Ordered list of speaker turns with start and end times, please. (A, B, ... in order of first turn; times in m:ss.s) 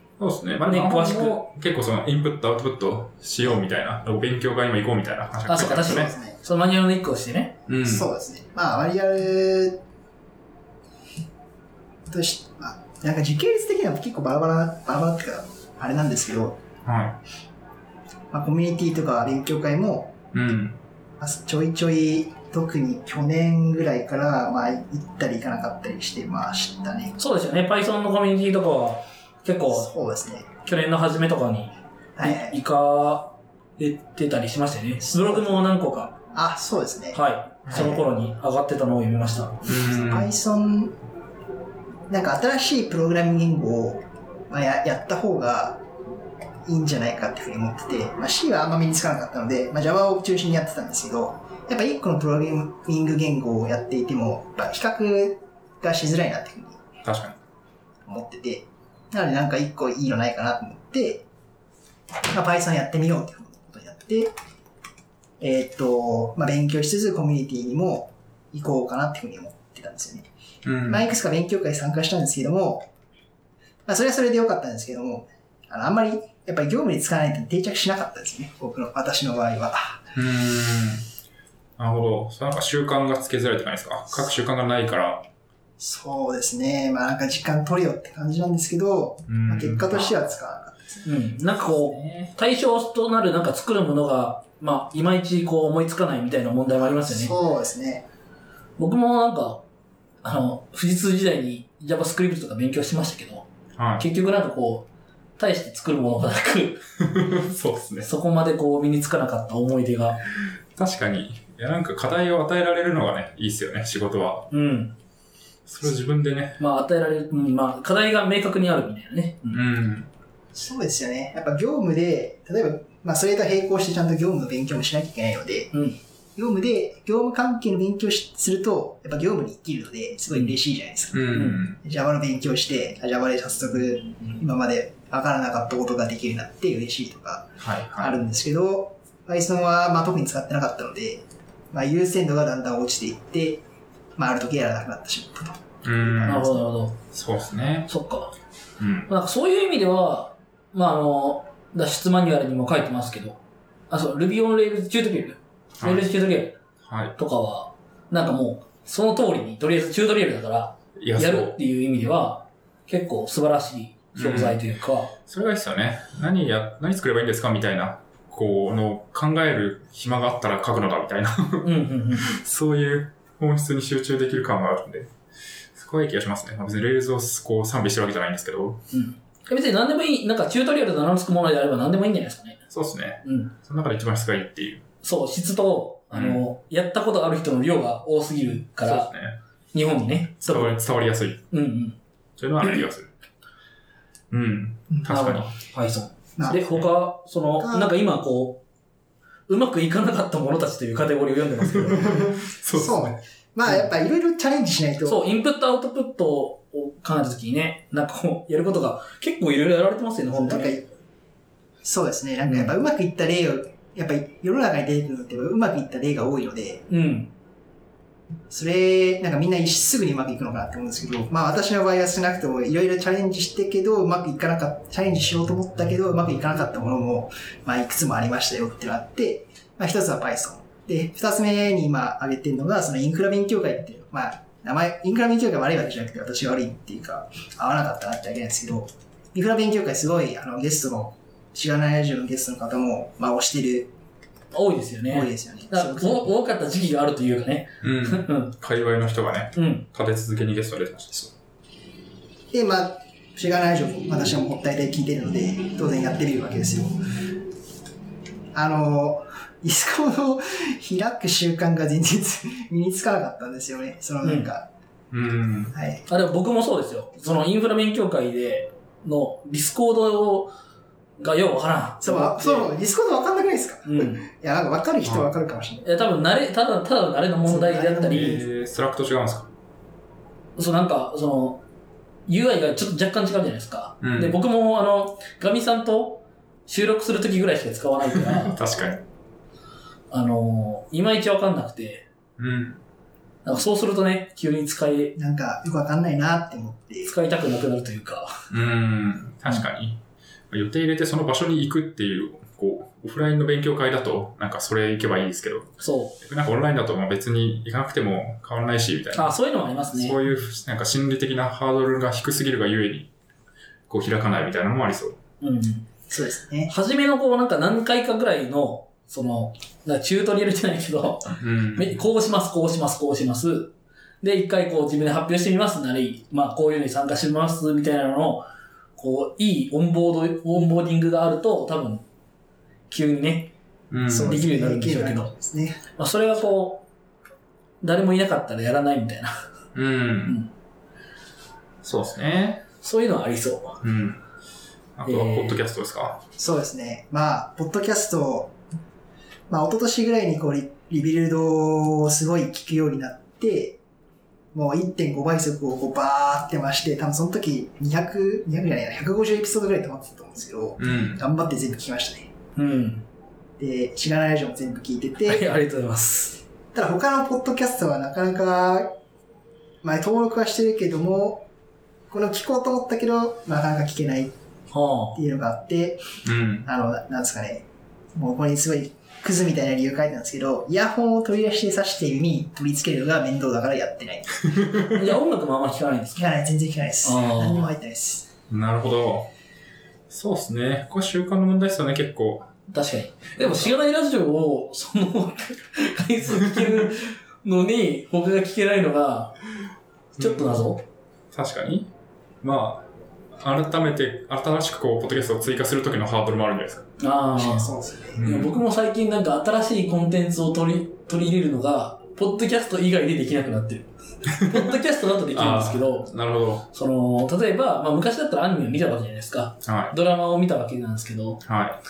0:00.2-0:06.1 A
0:00.6-0:01.4 B
0:05.5-0:07.6 B
0:05.7-0:06.4 C
0:07.7-0:08.1 A
0:07.8-0:09.8 C
0:12.1-0:16.6 C
0:16.8-0:17.2 A
0:18.3-0:20.2 C
0:20.3-0:20.8 A
0:21.2-0:27.2 C
0:27.2-0:29.9 B
0:29.7-0:30.5 C
0:30.6-0:36.1 B
0:32.2-0:32.6 C
0:35.0-0:35.6 C
0:36.3-0:38.0 C
0:37.1-0:39.6 B
0:39.6-0:40.3 A
0:39.6-0:41.0 C
0:42.1-0:45.8 C
0:46.6-0:56.8 C
0:57.0-0:57.4 A
0:58.0-1:01.2 C
1:02.3-1:04.3 C
1:05.4-1:10.3 C
1:10.6-1:11.1 A
1:10.8-1:12.9 C
1:13.8-1:20.1 C
1:20.1-1:21.0 A
1:21.8-1:25.2 A
1:25.8-1:31.0 C
1:29.3-1:30.2 A
1:31.0-1:37.3 B
1:31.5-1:32.3 A
1:36.9-1:38.0 C
1:38.8-1:39.6 B
1:40.2-1:43.4 B
1:43.8-1:44.0 A
1:44.0-1:44.9 B
1:45.4-1:46.8 B
1:47.0-1:48.1 A
1:48.0-1:50.2 B
1:50.7-1:54.5 A
1:54.5-1:54.9 B
1:55.6-1:56.6 A
1:56.6-1:59.6 B
1:59.5-2:00.1 A
2:00.5-2:05.7 C
2:05.7-2:06.0 B
2:06.4-2:23.6 C
2:11.1-2:11.8 A
2:11.3-2:11.6 B
2:17.6-2:18.2 A
2:24.2-2:26.5 C
2:25.8-2:26.5 A
2:26.2-2:27.0 B
2:27.1-2:27.9 A
2:27.9-2:28.3 B
2:28.8-2:29.1 A
2:29.1-2:33.4 B
2:33.9-2:36.6 B
2:35.8-2:36.0 A
2:36.8-2:37.1 A
2:37.2-2:45.1 B
2:41.0-2:41.6 A
2:44.1-2:44.6 A
2:45.3-2:55.1 A
2:51.6-2:52.4 B
2:55.7-2:58.8 A
2:58.9-3:02.6 B
3:02.7-3:04.8 A
3:03.2-3:03.5 B
3:05.0-3:09.1 B
3:06.1-3:06.4 A
3:08.8-3:09.4 A
3:09.7-3:10.8 B
3:10.4-3:11.4 A
3:11.5-3:12.0 B
3:12.4-3:13.1 A
3:14.3-3:15.5 A
3:15.0-3:18.6 B
3:16.4-3:16.7 C
3:17.6-3:17.9 C
3:19.5-3:22.2 B
3:21.7-3:23.2 A
3:21.9-3:25.2 C
3:25.0-3:30.8 B
3:30.3-3:30.9 C
3:31.8-3:36.8 C
3:32.5-3:32.7 B
3:36.9-3:37.3 B
3:38.5-4:03.9 C
4:04.5-4:08.5 B
4:05.1-4:06.3 C
4:07.8-4:11.3 A
4:09.5-4:09.8 B
4:12.5-4:17.0 C
4:18.5-4:24.7 C
4:24.2-4:24.5 B
4:25.1-4:25.7 A
4:25.7-4:26.1 C
4:26.1-4:30.5 B
4:31.2-4:32.7 B
4:32.0-4:35.8 C
4:33.8-4:34.2 B
4:35.0-4:35.3 A
4:35.8-4:38.4 B
4:37.4-4:38.4 C
4:38.1-4:39.5 A
4:40.6-4:41.6 B
4:42.3-4:48.6 B
4:44.0-4:44.4 A
4:48.4-4:49.0 A
4:50.1-4:52.0 B
4:52.4-4:52.8 A
4:53.4-4:55.2 B
4:55.2-4:57.1 C
4:57.0-4:58.3 B
4:58.5-5:09.3 A
5:05.8-5:06.2 B
5:09.1-5:10.2 B
5:09.9-5:13.1 A
5:13.9-5:15.2 A
5:15.4-5:15.9 B
5:16.1-5:16.7 C
5:16.7-5:32.0 B
5:21.4-5:21.9 A
5:32.9-5:33.5 B
5:33.9-5:34.4 A
5:34.1-5:35.3 B
5:34.1-5:35.8 C
5:36.0-5:36.8 B
5:37.8-5:39.4 B
5:39.7-5:40.4 A
5:41.8-5:42.6 A
5:42.8-5:43.8 B
5:43.8-5:44.2 A
5:45.0-5:46.2 A
5:45.0-5:45.6 B
5:46.4-5:48.5 C
5:49.5-5:53.8 C
5:54.5-6:02.3 C
6:00.8-6:01.2 A
6:02.6-6:03.0 B
6:03.6-6:05.5 C
6:05.2-6:06.4 B
6:06.7-6:09.0 C
6:09.8-6:11.4 C
6:12.1-6:14.3 C
6:14.7-6:15.2 B
6:15.2-6:16.0 C
6:16.2-6:16.7 A
6:16.6-6:24.8 C
6:24.8-6:26.3 B
6:26.2-6:28.3 C
6:27.0-6:27.7 B
6:28.5-6:29.3 A
6:30.1-6:32.5 A
6:32.7-6:39.4 B
6:40.2-6:40.8 B
6:40.2-6:40.6 A
6:41.3-6:41.9 A
6:42.4-6:46.8 A
6:47.0-6:56.1 B
6:47.3-6:48.2 C
6:48.1-6:48.5 A
6:55.3-6:56.6 A
6:56.7-7:01.4 B
6:59.6-6:59.9 A
7:01.4-7:01.8 A